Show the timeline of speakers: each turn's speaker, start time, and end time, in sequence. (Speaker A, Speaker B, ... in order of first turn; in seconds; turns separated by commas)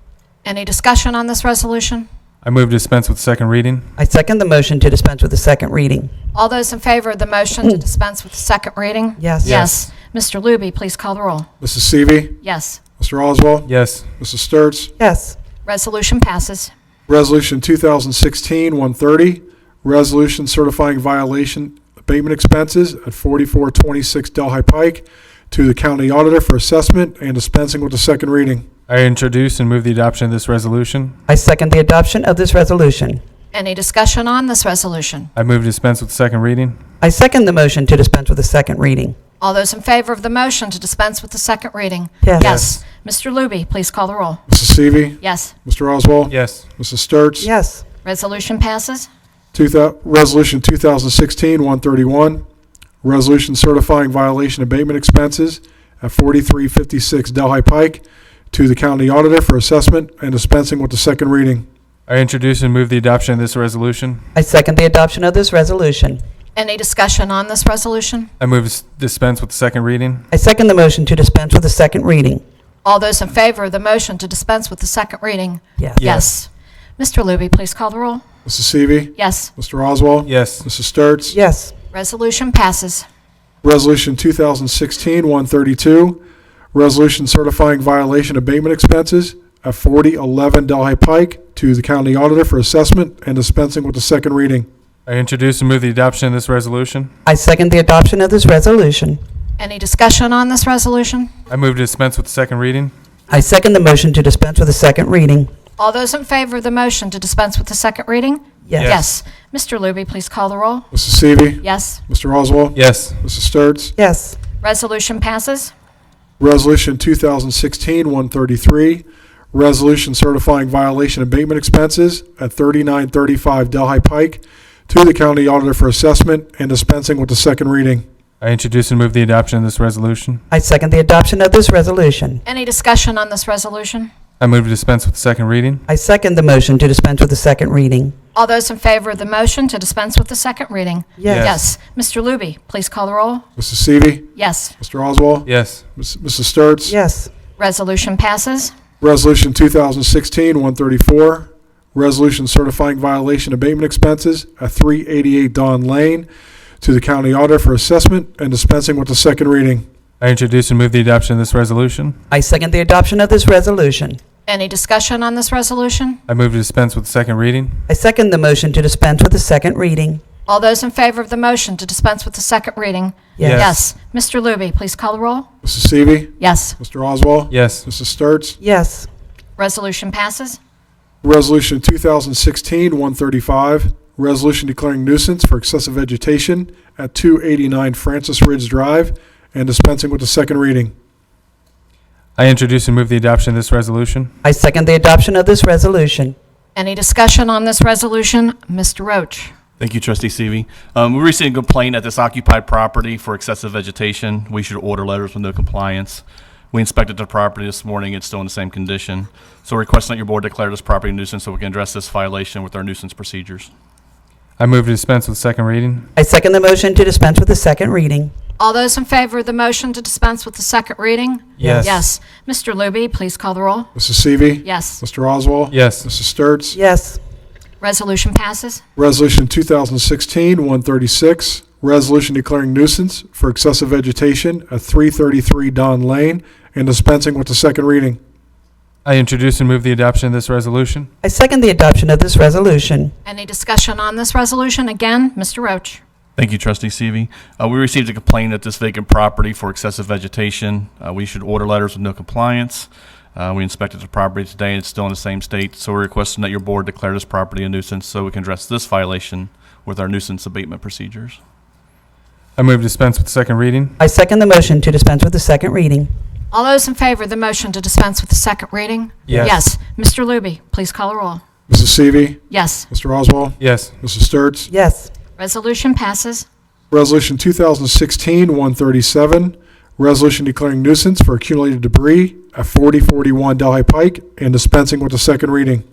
Speaker A: 0.4-2.1, Speaker B: 2.4-3.9, Speaker C: 4.0-6.1, Speaker A: 6.3-11.5, Speaker C: 9.2-9.6, Speaker B: 9.4-9.7, Speaker D: 11.6-12.4, Speaker A: 12.4-12.8, Speaker D: 13.0-14.9, Speaker B: 13.7-14.1, Speaker C: 15.0-15.4, Speaker A: 15.6-16.7, Speaker D: 17.1-28.7, Speaker B: 28.9-31.1, Speaker C: 31.3-33.2, Speaker A: 33.5-35.3, Speaker B: 35.4-36.8, Speaker C: 37.0-39.2, Speaker A: 39.4-44.4, Speaker C: 42.2-42.6, Speaker D: 42.4-42.8, Speaker D: 44.5-47.5, Speaker A: 45.2-45.5, Speaker B: 46.3-46.7, Speaker C: 47.4-47.8, Speaker A: 48.0-49.1, Speaker D: 49.5-52.4, Speaker D: 53.0-61.6, Speaker B: 62.1-64.2, Speaker C: 64.3-66.2, Speaker A: 66.5-68.3, Speaker B: 68.4-70.2, Speaker C: 70.3-72.4, Speaker A: 72.8-78.2, Speaker C: 75.8-76.0, Speaker B: 76.0-76.3, Speaker D: 78.4-81.4, Speaker A: 79.1-79.5, Speaker B: 80.2-80.6, Speaker C: 81.3-81.7, Speaker A: 81.9-83.0, Speaker D: 83.6-86.2, Speaker D: 86.7-94.7, Speaker B: 95.0-97.1, Speaker C: 97.2-99.2, Speaker A: 99.6-101.3, Speaker B: 101.5-102.9, Speaker C: 103.3-105.5, Speaker A: 105.8-110.9, Speaker C: 108.7-108.9, Speaker B: 108.8-109.1, Speaker D: 110.9-113.9, Speaker A: 111.6-112.0, Speaker B: 112.7-113.2, Speaker C: 114.0-114.4, Speaker A: 114.6-115.7, Speaker D: 116.4-128.0, Speaker B: 128.4-130.4, Speaker C: 130.5-132.4, Speaker A: 132.4-134.1, Speaker B: 134.4-135.8, Speaker C: 135.9-138.1, Speaker A: 138.3-143.4, Speaker C: 141.2-141.5, Speaker B: 141.3-141.6, Speaker D: 143.6-146.9, Speaker A: 144.3-144.7, Speaker B: 145.4-145.8, Speaker C: 146.9-147.3, Speaker A: 147.6-148.7, Speaker D: 149.0-156.3, Speaker D: 156.8-159.8, Speaker B: 160.2-162.2, Speaker C: 162.3-164.2, Speaker A: 164.5-166.2, Speaker B: 166.3-167.8, Speaker C: 167.9-170.2, Speaker A: 170.5-175.5, Speaker C: 173.4-173.7, Speaker B: 173.4-173.8, Speaker D: 175.6-178.6, Speaker A: 176.4-176.8, Speaker B: 177.5-177.8, Speaker C: 178.6-179.1, Speaker A: 179.6-180.6, Speaker D: 181.2-190.9, Speaker B: 192.4-194.3, Speaker C: 194.4-196.3, Speaker A: 196.7-199.5, Speaker E: 199.8-213.7, Speaker B: 214.6-216.1, Speaker C: 216.2-218.3, Speaker A: 218.6-223.9, Speaker B: 221.6-222.0, Speaker C: 221.6-222.0, Speaker D: 223.9-226.8, Speaker A: 224.6-225.0, Speaker B: 225.7-226.1, Speaker C: 226.7-227.2, Speaker A: 227.8-228.8, Speaker D: 228.9-238.2, Speaker B: 239.0-241.1, Speaker C: 241.2-243.1, Speaker A: 243.2-246.0, Speaker E: 246.4-261.4, Speaker B: 262.6-263.9, Speaker C: 264.0-266.1, Speaker A: 266.5-271.4, Speaker B: 269.3-269.6, Speaker D: 271.7-274.7, Speaker A: 272.5-272.9, Speaker B: 273.6-273.9, Speaker C: 274.7-275.1, Speaker A: 275.4-276.4, Speaker D: 276.9-285.8